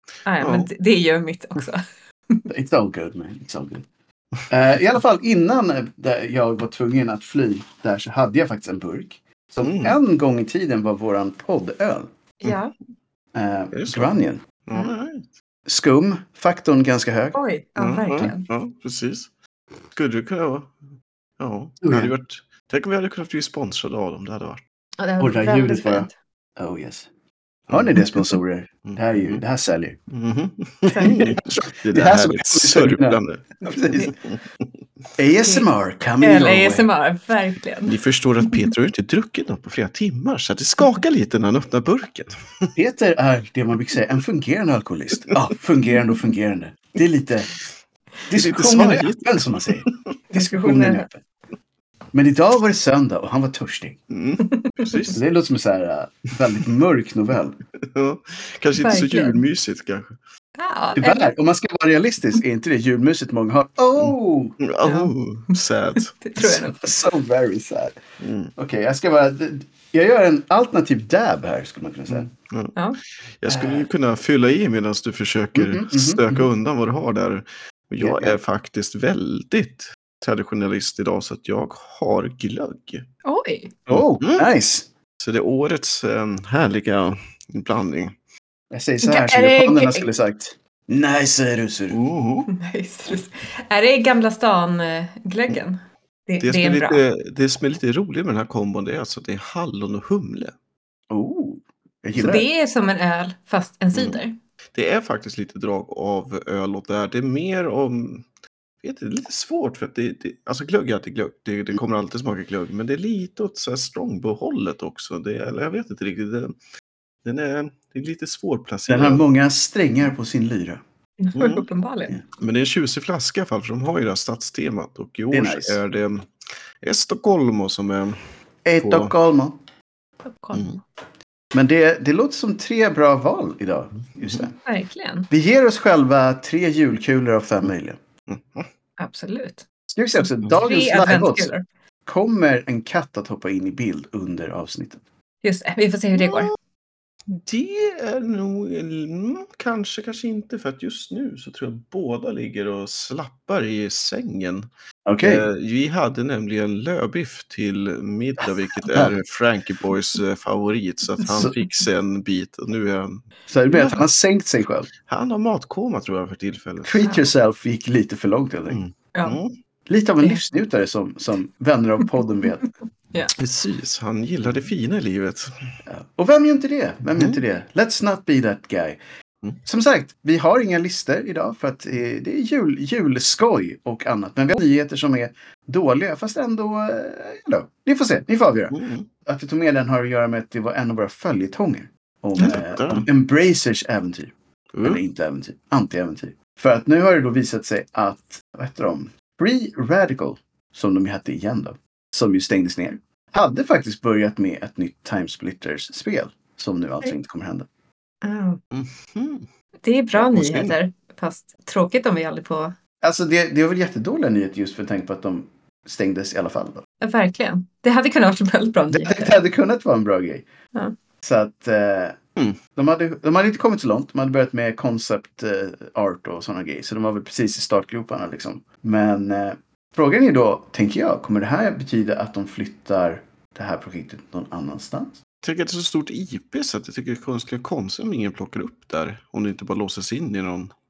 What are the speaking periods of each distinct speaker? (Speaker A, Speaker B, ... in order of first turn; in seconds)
Speaker A: 0.2-2.4, 12.4-12.7, 17.3-18.5, 25.0-26.1, 30.9-31.2, 35.4-35.7, 36.2-38.0, 50.3-51.1, 54.5-55.1, 58.8-59.4, 60.6-61.3, 64.8-66.9, 83.2-83.8, 89.0-90.0, 92.5-97.0, 102.2-104.3, 121.2-122.2, 130.2-130.8, 134.7-135.3, 139.0-139.7, 140.4-141.6, 145.4-146.5, 169.1-169.4, 208.2-208.6, 209.8-212.7, 217.0-219.4
Speaker B: 0.4-0.7, 9.6-10.0, 13.7-15.3, 17.8-19.3, 19.9-20.8, 21.4-24.6, 27.7-28.0, 28.8-29.4, 30.1-33.5, 34.0-34.7, 37.9-42.7, 48.3-50.2, 54.1-55.2, 57.9-60.2, 64.0-66.1, 68.2-68.5, 72.1-83.0, 83.9-84.4, 85.2-88.1, 91.9-92.5, 96.4-100.5, 103.9-104.2, 104.7-108.2, 108.8-116.5, 117.2-119.2, 121.3-121.7, 122.4-126.3, 126.8-128.2, 128.8-129.2, 138.3-138.7, 146.2-146.5, 147.3-154.7, 155.2-164.0, 165.0-167.0, 168.7-169.5, 173.3-175.5, 177.1-177.4, 188.7-189.1, 192.4-193.1, 194.7-195.0, 208.7-209.5, 210.2-210.8, 235.4-240.7
Speaker C: 2.5-3.9, 4.5-12.1, 13.3-14.9, 15.7-17.4, 21.8-22.1, 25.2-27.1, 27.7-30.0, 31.2-34.1, 35.2-36.9, 42.7-47.5, 48.3-51.2, 52.1-54.0, 55.1-57.6, 61.0-64.6, 66.4-68.0, 68.5-72.3, 73.5-73.9, 75.5-76.4, 78.0-78.4, 83.9-84.9, 88.7-92.0, 101.1-102.5, 118.9-120.8, 125.3-125.8, 128.7-129.6, 131.5-134.6, 135.3-138.0, 139.9-141.5, 142.1-145.0, 155.1-155.4, 163.5-164.9, 166.8-168.8, 169.9-172.7, 175.8-179.0, 179.7-207.7, 213.0-216.8, 218.9-220.5, 221.2-222.2, 222.7-235.2